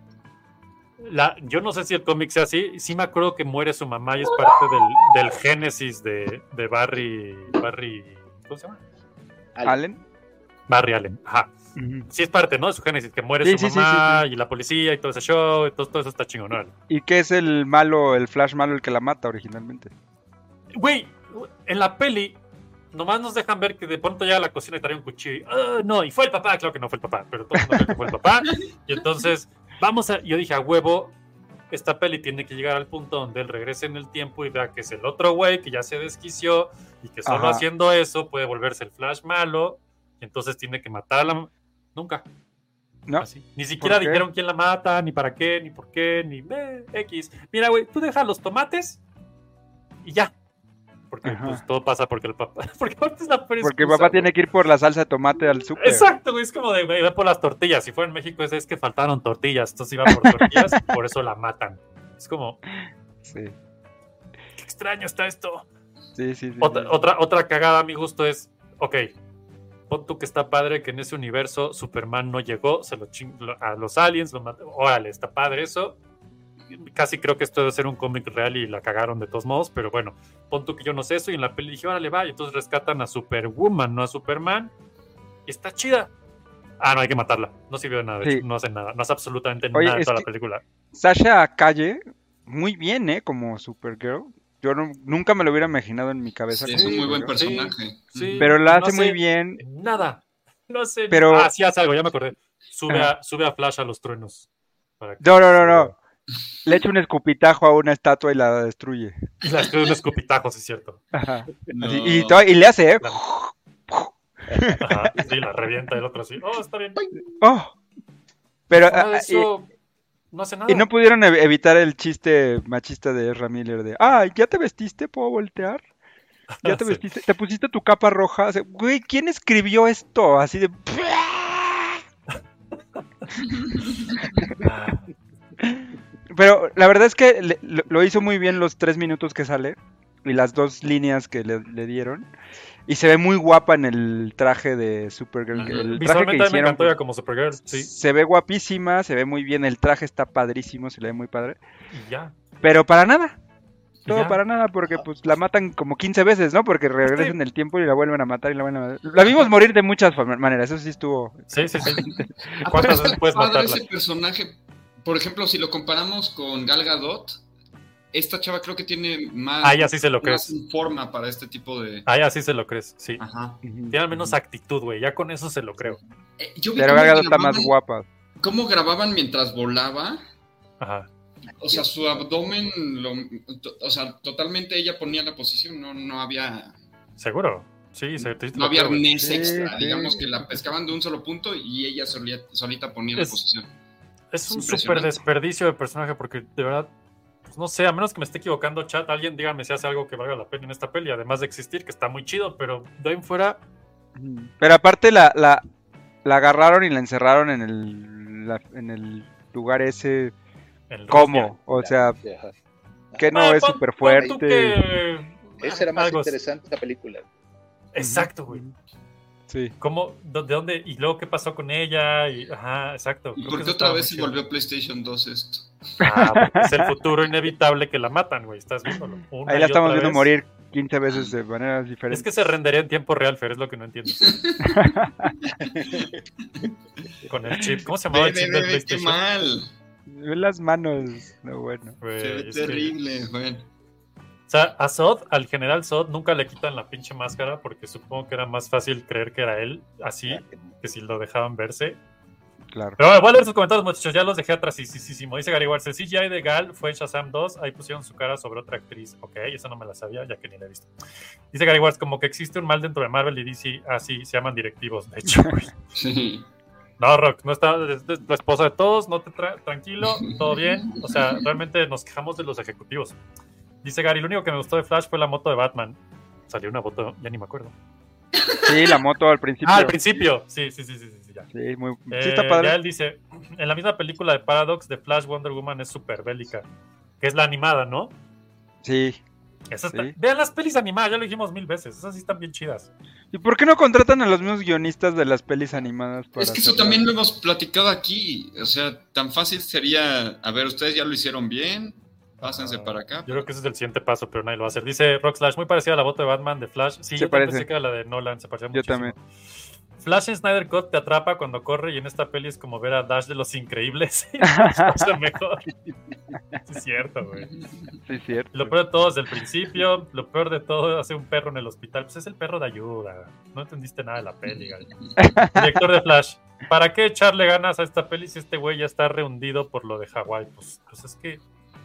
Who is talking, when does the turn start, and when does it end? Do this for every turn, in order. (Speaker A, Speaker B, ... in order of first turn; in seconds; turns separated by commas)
Speaker A: 1.0-8.8, Speaker B: 9.6-9.8, Speaker C: 9.6-10.0, Speaker A: 10.7-11.5, Speaker C: 11.8-12.1, Speaker A: 12.1-16.7, Speaker C: 13.4-14.2, Speaker C: 16.9-19.9, Speaker A: 20.7-22.4, Speaker A: 22.9-31.1, Speaker C: 27.6-27.9, Speaker A: 31.7-42.2, Speaker C: 37.2-37.6, Speaker A: 43.2-49.0, Speaker C: 43.8-44.2, Speaker A: 50.0-50.3, Speaker A: 51.1-54.3, Speaker C: 51.2-51.6, Speaker C: 53.6-56.1, Speaker A: 55.8-62.6, Speaker C: 60.1-60.8, Speaker C: 63.2-63.5, Speaker A: 64.6-65.7, Speaker C: 66.2-67.0, Speaker A: 66.6-69.1, Speaker A: 69.9-76.0, Speaker A: 76.7-84.7, Speaker A: 85.5-86.1, Speaker A: 86.8-90.6, Speaker C: 88.2-88.5, Speaker C: 89.7-90.3, Speaker C: 90.9-97.3, Speaker D: 96.5-98.5, Speaker A: 96.7-104.5, Speaker C: 98.4-99.6, Speaker C: 101.1-101.5, Speaker C: 102.9-103.1, Speaker A: 105.0-106.0, Speaker C: 105.2-105.9, Speaker C: 106.7-109.2, Speaker A: 109.4-111.0, Speaker C: 111.1-115.2, Speaker D: 111.7-112.5, Speaker A: 114.8-117.0, Speaker B: 117.0-117.2, Speaker C: 117.4-117.7, Speaker C: 118.7-119.5, Speaker A: 118.8-119.7, Speaker A: 120.3-120.9, Speaker C: 120.7-125.8, Speaker A: 126.6-127.0, Speaker C: 126.6-132.0, Speaker A: 134.6-135.1, Speaker C: 135.6-142.3, Speaker C: 142.9-147.0, Speaker A: 145.5-147.9, Speaker D: 145.6-145.9, Speaker C: 147.6-151.6, Speaker A: 151.9-152.4, Speaker C: 152.6-153.4, Speaker C: 154.1-162.9, Speaker A: 154.1-154.4, Speaker A: 157.0-157.4, Speaker A: 159.2-159.5, Speaker A: 161.5-162.1, Speaker D: 162.5-167.4, Speaker A: 162.6-163.8, Speaker D: 168.1-172.1, Speaker A: 169.6-170.5, Speaker A: 172.1-173.2, Speaker D: 173.2-173.6, Speaker C: 173.6-174.3, Speaker A: 173.9-176.0, Speaker D: 176.4-177.7, Speaker C: 176.8-178.1, Speaker D: 178.4-180.2, Speaker A: 180.8-181.1, Speaker D: 181.6-186.7, Speaker B: 181.7-182.1, Speaker A: 187.2-189.1, Speaker D: 188.5-193.7, Speaker C: 189.2-190.3, Speaker A: 193.2-193.4, Speaker A: 194.3-196.9, Speaker D: 194.5-195.2, Speaker A: 197.5-203.6, Speaker C: 204.2-205.7, Speaker C: 206.2-210.3, Speaker A: 210.9-211.5, Speaker C: 211.1-212.2, Speaker B: 211.6-212.5, Speaker B: 213.1-213.4, Speaker C: 213.2-214.8, Speaker A: 213.3-216.3, Speaker B: 214.0-214.4, Speaker B: 215.6-217.3, Speaker A: 217.9-218.6, Speaker C: 218.0-218.7, Speaker C: 219.5-219.7, Speaker A: 219.8-224.4, Speaker D: 223.4-225.7, Speaker A: 226.0-230.3, Speaker C: 226.1-226.9, Speaker C: 229.4-232.3, Speaker A: 232.1-234.3, Speaker D: 234.2-234.6, Speaker C: 234.6-235.3, Speaker D: 235.8-236.0, Speaker A: 237.3-239.2, Speaker D: 238.1-239.7, Speaker C: 240.1-242.0, Speaker A: 242.0-242.9, Speaker D: 242.2-243.7, Speaker A: 244.5-252.0, Speaker B: 250.3-250.7, Speaker C: 252.7-253.0, Speaker A: 253.0-260.9, Speaker A: 261.5-265.7, Speaker C: 265.2-265.6, Speaker D: 265.9-266.5, Speaker A: 267.0-273.2, Speaker D: 270.2-271.4, Speaker A: 273.8-277.8, Speaker D: 278.4-278.6, Speaker C: 278.6-280.0, Speaker A: 279.6-281.5, Speaker C: 281.5-282.8, Speaker A: 282.1-286.7, Speaker A: 287.2-288.1, Speaker C: 288.8-289.2, Speaker A: 289.7-292.9, Speaker C: 293.3-297.1, Speaker D: 296.4-303.5, Speaker A: 302.4-309.2, Speaker C: 307.2-307.7, Speaker C: 308.7-309.1, Speaker A: 310.0-315.7, Speaker C: 314.4-315.1, Speaker A: 316.6-317.5, Speaker C: 318.1-318.8, Speaker A: 318.5-324.9, Speaker C: 325.2-325.8, Speaker A: 325.6-331.4